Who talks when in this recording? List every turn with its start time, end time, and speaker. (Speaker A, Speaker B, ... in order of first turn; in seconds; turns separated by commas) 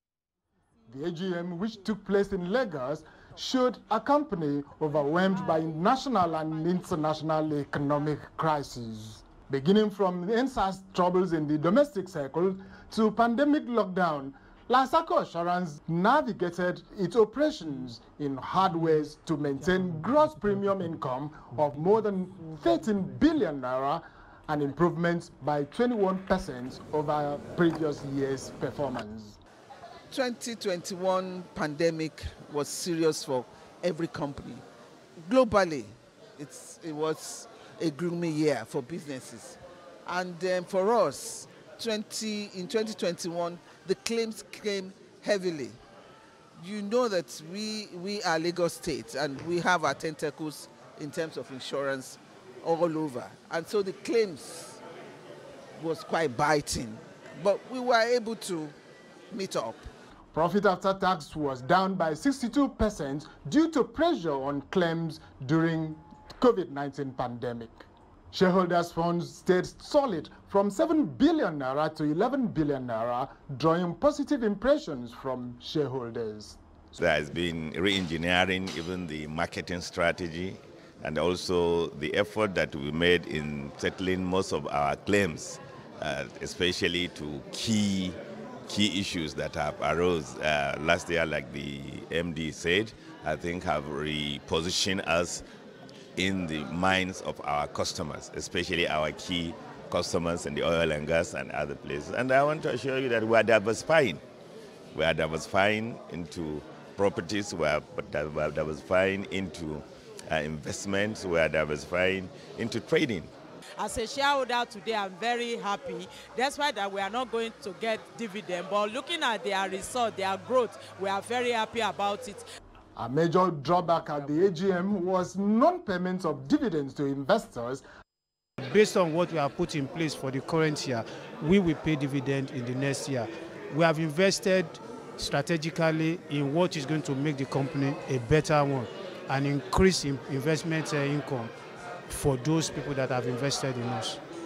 Speaker A: 0.9-29.4, Speaker B: 30.1-34.6, Speaker B: 35.2-45.8, Speaker B: 46.6-54.8, Speaker B: 55.8-58.8, Speaker B: 59.3-59.9, Speaker A: 60.3-76.6, Speaker C: 77.0-95.4, Speaker C: 96.2-104.2, Speaker C: 104.9-113.3, Speaker D: 113.8-122.4, Speaker A: 123.0-127.8, Speaker E: 128.6-141.5, Speaker E: 142.1-144.2